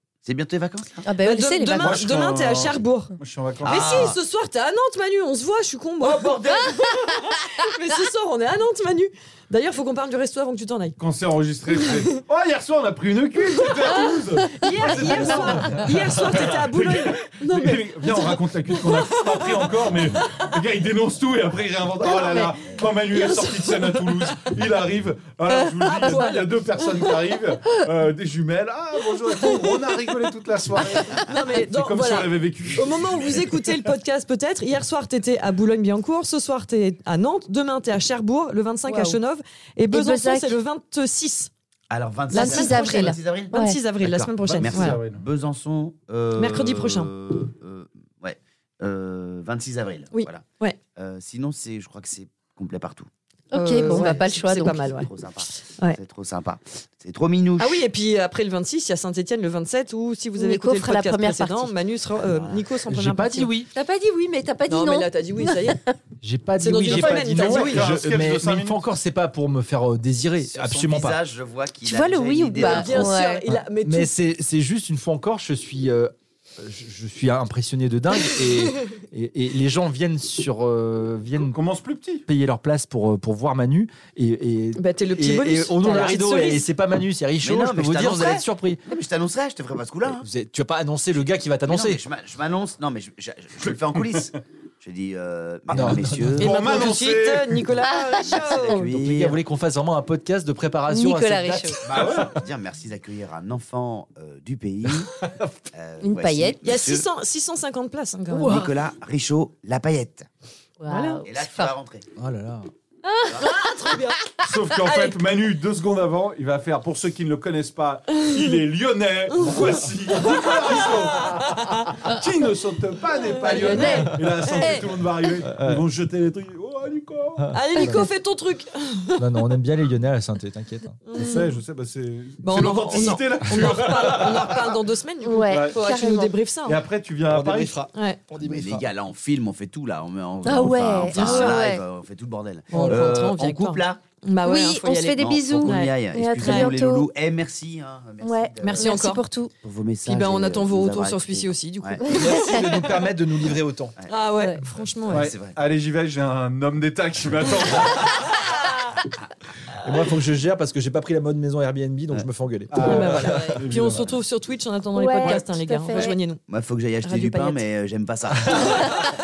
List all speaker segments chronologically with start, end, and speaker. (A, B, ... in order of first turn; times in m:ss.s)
0:00.2-0:01.1 A
0:01.0-0:02.0 B
0:01.2-0:11.0 C
0:01.8-0:04.2 D
0:03.6-0:04.2 A
0:06.0-0:06.9 A
0:11.0-0:33.8 D
0:13.7-0:20.5 C
0:22.0-0:24.5 C
0:25.5-0:27.2 C
0:31.2-0:41.5 C
0:38.8-0:39.2 B
0:39.9-0:40.6 B
0:41.9-0:50.4 A
0:42.3-0:45.0 C
0:42.3-0:43.8 B
0:44.4-0:45.2 D
0:46.3-0:47.1 C
0:50.1-0:50.8 C
0:50.9-0:53.1 A
0:53.5-0:54.7 B
0:53.5-0:55.1 C
0:53.8-0:57.8 A
0:57.6-1:03.5 C
1:00.4-1:01.7 B
1:02.3-1:02.6 A
1:02.9-1:03.7 E
1:03.7-1:05.9 B
1:04.7-1:05.8 C
1:06.2-1:11.2 E
1:06.6-1:07.9 C
1:06.8-1:08.8 D
1:10.5-1:13.1 A
1:11.8-1:13.4 B
1:12.5-1:14.1 C
1:13.5-1:21.6 E
1:21.4-1:22.2 D
1:22.3-1:28.8 E
1:24.8-1:26.6 C
1:27.4-1:30.3 A
1:30.1-1:32.0 E
1:31.6-1:36.6 A
1:34.0-1:34.3 D
1:35.7-1:36.5 E
1:36.4-1:37.6 D
1:36.4-1:38.9 C
1:37.9-1:38.8 B
1:38.2-1:39.4 A
1:38.9-1:42.3 E
1:40.9-1:41.8 B
1:41.8-1:45.1 A
1:41.8-1:42.3 D
1:44.9-1:45.5 E
1:45.7-1:47.0 A
1:46.0-1:46.8 B
1:46.6-1:48.5 C
1:48.3-1:48.7 B
1:48.4-1:50.3 A
1:50.8-1:51.7 B
1:50.9-1:51.2 C
1:51.2-1:52.0 A
1:52.2-1:52.7 E
1:53.0-1:54.0 B
1:53.4-1:54.2 C
1:54.4-2:07.6 D
1:54.8-1:55.1 C
1:58.1-1:58.5 C
1:59.3-2:02.0 C
2:03.4-2:04.9 B
2:03.4-2:04.0 C
2:03.8-2:04.6 E
2:05.4-2:05.8 E
2:07.4-2:08.0 E
2:07.5-2:09.5 C
2:07.7-2:08.1 B
2:09.2-2:11.0 E
2:11.0-2:11.5 C
2:11.1-2:14.8 D
2:11.2-2:11.5 B
2:12.4-2:16.8 C
2:15.2-2:16.4 B
2:15.5-2:15.9 D
2:16.6-2:17.8 D
2:17.3-2:18.8 E
2:17.9-2:18.2 C
2:18.4-2:24.0 A
2:20.4-2:21.8 B
2:21.1-2:21.6 C
2:22.7-2:26.7 C
2:22.7-2:23.0 E
2:24.4-2:27.1 B
2:25.2-2:29.0 A
2:28.2-2:29.5 B
2:28.6-2:29.2 C
2:29.6-2:32.0 A
2:30.0-2:32.9 C
2:32.0-2:32.6 B
2:32.0-2:33.9 E
2:34.1-2:35.3 C
2:35.1-2:35.6 A
2:35.1-2:38.4 D
2:39.8-2:43.6 E
2:42.7-2:44.1 D
2:42.8-2:46.4 C
2:44.9-2:46.2 B
2:46.5-2:48.9 A
2:47.0-2:47.6 C
2:48.4-2:48.9 E